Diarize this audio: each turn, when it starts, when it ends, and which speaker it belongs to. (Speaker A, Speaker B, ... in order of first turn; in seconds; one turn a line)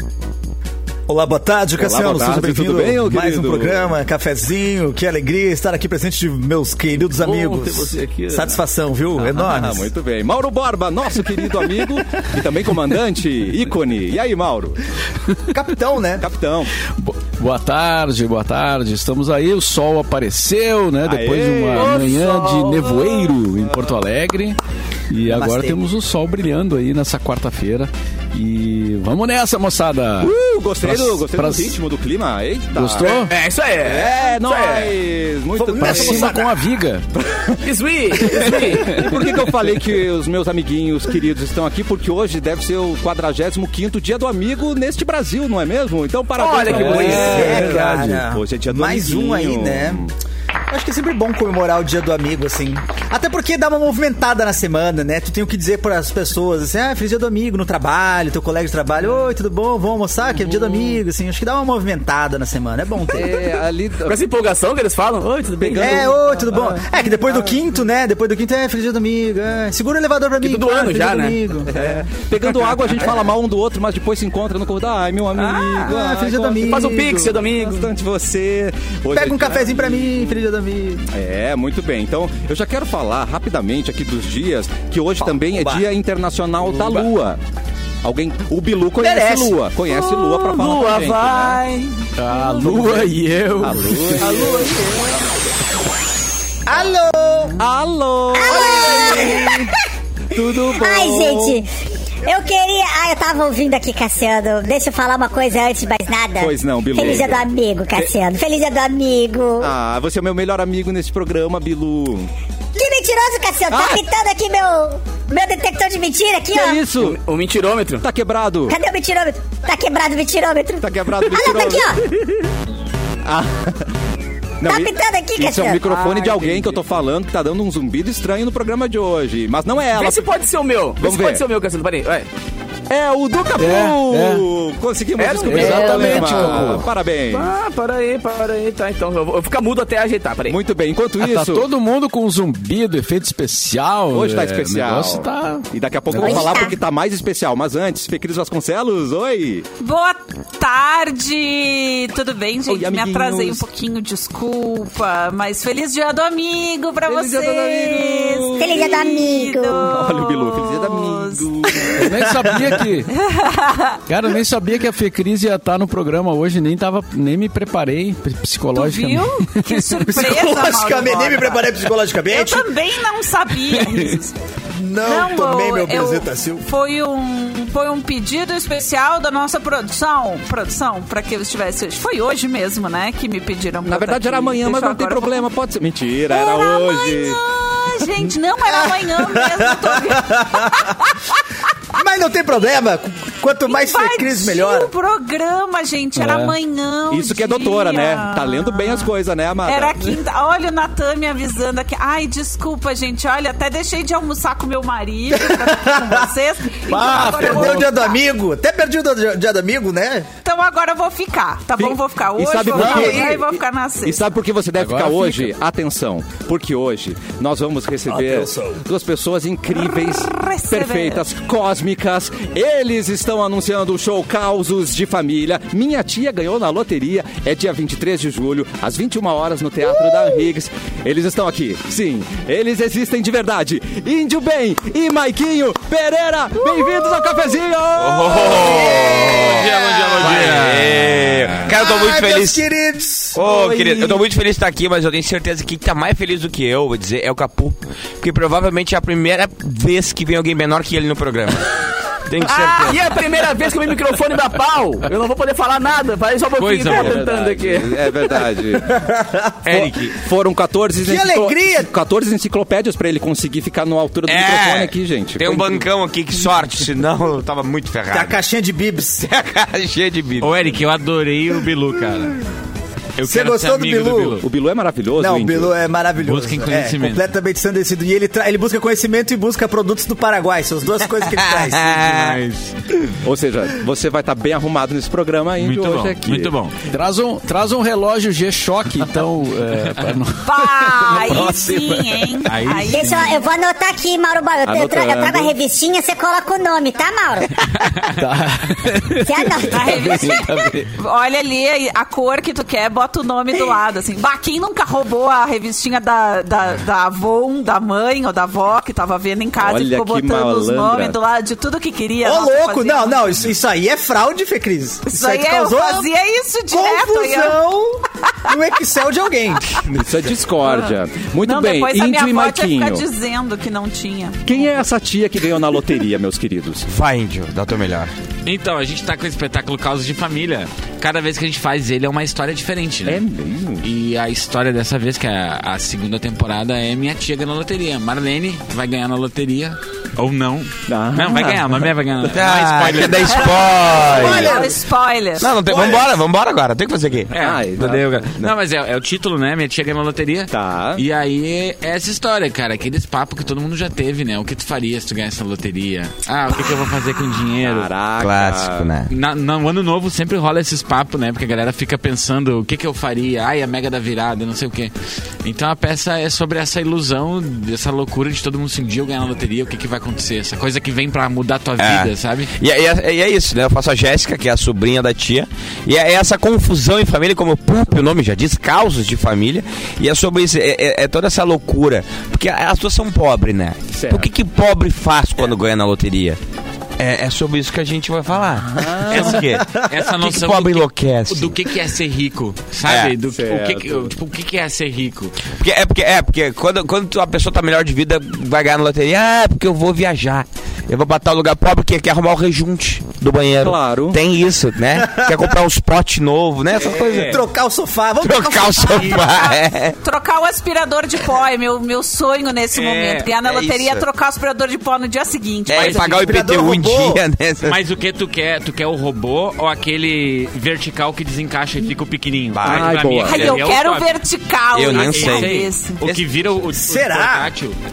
Speaker A: 1.1-9.9
Speaker B: 1.8-3.9
Speaker C: 7.2-8.6
Speaker B: 9.2-14.8
Speaker A: 15.5-16.2
Speaker B: 16.2-16.7
Speaker D: 16.9-24.6
Speaker B: 21.0-22.8
Speaker C: 21.7-23.3
Speaker D: 25.1-31.8
Speaker A: 25.2-25.8
Speaker B: 30.2-33.2
Speaker D: 32.7-33.3
Speaker C: 33.0-35.0
Speaker B: 33.8-36.5
Speaker A: 35.6-36.5
Speaker D: 35.8-37.1
Speaker B: 37.1-50.1
Speaker C: 37.6-39.0
Speaker C: 46.4-47.7
Speaker D: 46.7-47.3
Speaker A: 46.9-50.1
Speaker A: 50.7-63.3
Speaker B: 60.4-61.0
Speaker B: 63.1-64.2
Speaker C: 64.0-66.8
Speaker B: 65.6-66.1
Speaker A: 65.7-72.1
Speaker C: 70.4-71.4
Speaker B: 71.7-80.4
Speaker C: 75.4-75.9
Speaker A: 75.8-77.4
Speaker C: 76.6-77.9
Speaker A: 79.1-81.1
Speaker B: 81.1-87.4
Speaker A: 85.5-85.8
Speaker C: 86.8-87.1
Speaker B: 88.0-91.6
Speaker A: 89.0-89.6
Speaker C: 90.1-91.9
Speaker D: 92.2-94.3
Speaker B: 92.6-95.1
Speaker C: 94.2-95.0
Speaker A: 94.3-94.8
Speaker A: 96.7-97.6
Speaker B: 97.6-99.7
Speaker E: 98.3-99.7
Speaker B: 100.3-101.6
Speaker E: 100.8-101.7
Speaker E: 102.3-109.7
Speaker B: 106.4-108.1
Speaker B: 109.6-112.3
Speaker E: 112.8-116.8
Speaker B: 113.7-114.0
Speaker B: 116.5-117.2
Speaker C: 116.9-118.0
Speaker B: 118.0-118.8
Speaker E: 118.7-122.0
Speaker B: 120.8-121.9
Speaker B: 123.3-123.8
Speaker B: 124.6-130.3
Speaker E: 124.6-125.8
Speaker C: 125.8-126.8
Speaker C: 129.9-132.3
Speaker B: 131.0-131.4
Speaker B: 132.9-137.5
Speaker D: 133.6-134.5
Speaker C: 135.2-140.6
Speaker D: 135.5-136.2
Speaker A: 135.9-136.6
Speaker B: 140.5-141.7
Speaker D: 141.2-146.4
Speaker B: 144.1-149.7
Speaker E: 146.2-146.7
Speaker F: 149.8-162.1
Speaker B: 152.7-153.6
Speaker B: 157.1-159.0
Speaker E: 158.6-159.9
Speaker B: 159.8-162.0
Speaker D: 162.0-163.1
Speaker A: 162.1-162.8
Speaker F: 163.1-164.0
Speaker D: 164.1-170.0
Speaker F: 168.7-171.7
Speaker A: 170.1-172.7
Speaker F: 172.3-174.3
Speaker A: 174.8-176.7
Speaker F: 175.1-185.5
Speaker B: 183.8-187.4
Speaker F: 186.3-191.4
Speaker A: 188.7-190.9
Speaker A: 191.9-194.9
Speaker F: 193.7-199.1
Speaker D: 196.2-196.6
Speaker B: 197.1-200.1
Speaker F: 199.7-208.2
Speaker A: 205.3-206.3
Speaker A: 206.9-210.3
Speaker D: 207.1-207.7
Speaker F: 210.4-214.2
Speaker B: 211.8-238.8
Speaker A: 212.7-213.4
Speaker D: 214.8-215.5
Speaker A: 218.1-218.8
Speaker F: 219.8-221.2
Speaker G: 238.0-241.7
Speaker H: 238.5-242.6
Speaker A: 238.5-240.2
Speaker A: 241.7-243.4
Speaker H: 243.3-251.7
Speaker B: 243.5-244.2
Speaker H: 252.3-253.1
Speaker C: 252.4-258.4
Speaker G: 256.6-257.2
Speaker B: 256.9-258.9
Speaker A: 258.8-260.0
Speaker G: 259.6-260.2
Speaker B: 260.1-265.9
Speaker A: 261.0-261.9
Speaker H: 264.3-268.4
Speaker A: 268.1-269.3
Speaker H: 269.2-270.7
Speaker G: 270.4-272.4
Speaker G: 273.2-274.4
Speaker A: 273.2-274.4
Speaker B: 274.4-275.7
Speaker A: 275.2-282.1
Speaker G: 276.2-277.2
Speaker H: 281.3-282.4
Speaker G: 282.0-282.8
Speaker B: 283.2-286.5
Speaker G: 285.6-286.7
Speaker D: 286.9-292.4
Speaker F: 290.4-293.3
Speaker G: 292.5-293.4
Speaker E: 292.9-297.6
Speaker B: 294.6-295.5
Speaker G: 297.9-298.2
Speaker D: 298.1-300.9
Speaker E: 299.2-300.2
Speaker F: 299.7-313.4
Speaker B: 309.6-311.2
Speaker A: 312.2-316.1
Speaker F: 315.1-317.6
Speaker A: 316.7-319.7
Speaker B: 319.8-323.1
Speaker F: 320.6-324.5
Speaker B: 324.4-326.9
Speaker H: 326.9-328.1
Speaker G: 328.4-333.2
Speaker B: 333.1-333.9
Speaker G: 333.8-343.6
Speaker B: 340.9-341.8
Speaker H: 342.2-344.6
Speaker F: 343.3-345.5
Speaker A: 344.1-344.8
Speaker H: 345.4-347.3
Speaker A: 345.7-346.1
Speaker G: 347.3-357.9
Speaker B: 347.4-348.5
Speaker B: 350.5-351.0
Speaker B: 357.6-358.9
Speaker H: 358.2-359.1
Speaker G: 359.1-372.5
Speaker H: 371.8-386.4
Speaker B: 383.9-384.3
Speaker H: 387.0-391.6
Speaker B: 388.7-389.4
Speaker G: 389.1-395.4
Speaker H: 392.9-393.1
Speaker B: 393.3-394.1
Speaker H: 395.6-407.4
Speaker B: 403.6-404.2
Speaker A: 404.9-405.4
Speaker A: 406.7-409.2
Speaker G: 406.9-407.4
Speaker H: 408.2-409.9
Speaker F: 408.8-416.1
Speaker G: 412.7-413.3
Speaker H: 413.4-414.0
Speaker H: 415.7-417.8
Speaker A: 415.7-417.2
Speaker G: 415.8-416.3
Speaker G: 417.6-424.1
Speaker H: 422.5-423.0
Speaker B: 422.6-423.6
Speaker F: 423.2-426.0
Speaker H: 424.7-426.3
Speaker G: 424.9-427.8
Speaker A: 426.7-427.5